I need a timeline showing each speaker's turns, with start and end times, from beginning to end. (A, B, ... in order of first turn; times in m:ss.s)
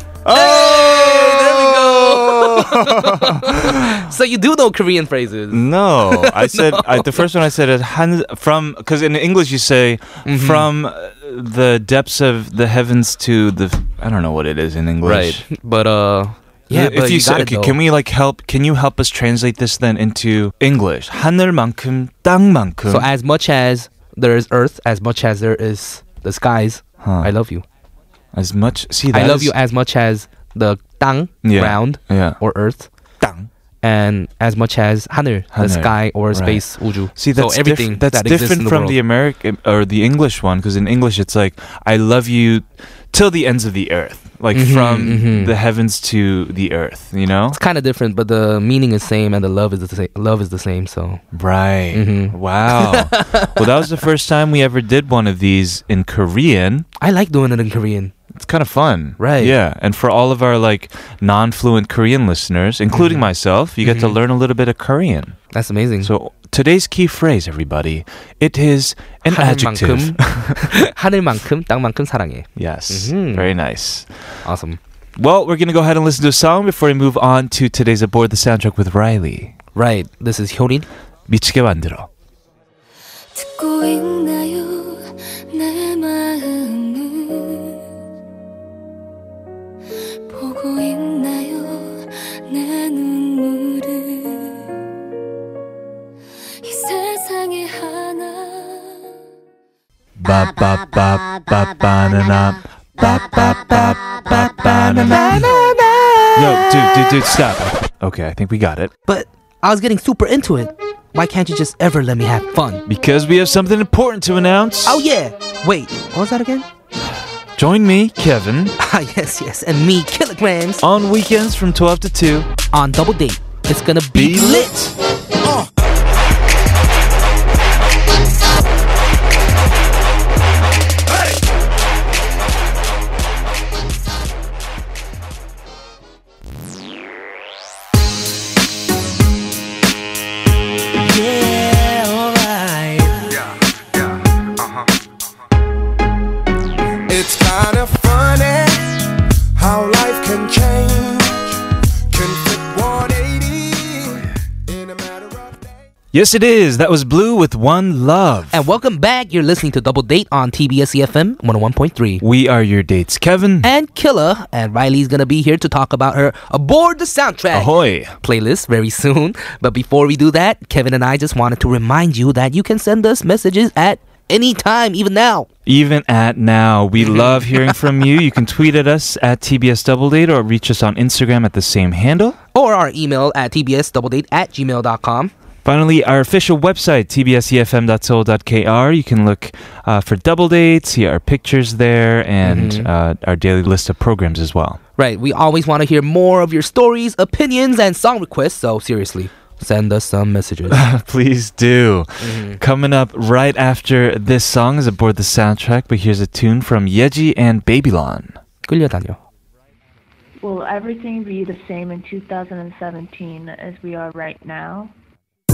0:00.2-0:04.0 A
0:00.3-0:07.3 B
0:05.5-0:15.4 A
0:10.2-0:10.7 B
0:15.0-0:17.8 B
0:16.7-0:23.1 A
0:22.9-0:27.6 B
0:27.0-0:27.3 A
0:28.3-0:29.5 A
0:29.1-0:32.9 B
0:31.4-0:32.4 A
0:33.2-0:33.5 A
0:33.8-0:39.0 B
0:35.5-0:47.6 A
0:44.5-0:45.5 B
0:47.5-0:51.2 B
0:51.3-0:56.9 A
0:51.9-0:53.6 B
0:57.0-0:58.1 B
0:58.3-1:05.4 A
0:59.2-0:59.6 B
1:02.9-1:03.2 B
1:03.8-1:04.2 B
1:05.5-1:06.1 B
1:06.0-1:10.7 A
1:09.3-1:13.5 B
1:12.6-1:14.1 A
1:14.4-1:14.8 B
1:15.2-1:19.5 A
1:19.7-1:20.9 B
1:21.3-1:22.1 A
1:23.3-1:27.7 C
1:30.3-1:34.6 C
1:36.6-1:38.9 C
1:40.2-1:45.7 A
1:44.4-1:47.1 B
1:46.3-1:48.9 A
1:49.1-1:52.8 B
1:52.8-1:55.0 A
1:54.8-1:56.7 B
1:57.6-1:58.7 A
1:58.8-2:00.8 B
2:00.8-2:02.5 A
2:02.7-2:04.7 B
2:04.1-2:04.9 A
2:21.0-2:23.3 D
2:23.4-2:24.8 E
2:27.1-2:31.6 E
2:32.1-2:35.8 E
2:36.1-2:38.6 A
2:38.5-2:42.2 B
2:42.2-2:43.7 A
2:43.6-2:55.5 B
2:47.5-2:48.1 A
2:55.6-3:02.4 A
2:57.0-2:57.6 B
3:02.5-3:05.3 B
3:05.6-3:14.8 A
3:12.4-3:12.9 B
3:15.0-3:20.8 B
3:20.7-3:28.4 A
3:22.2-3:22.6 B
3:28.6-3:29.2 B
3:30.4-3:34.9 F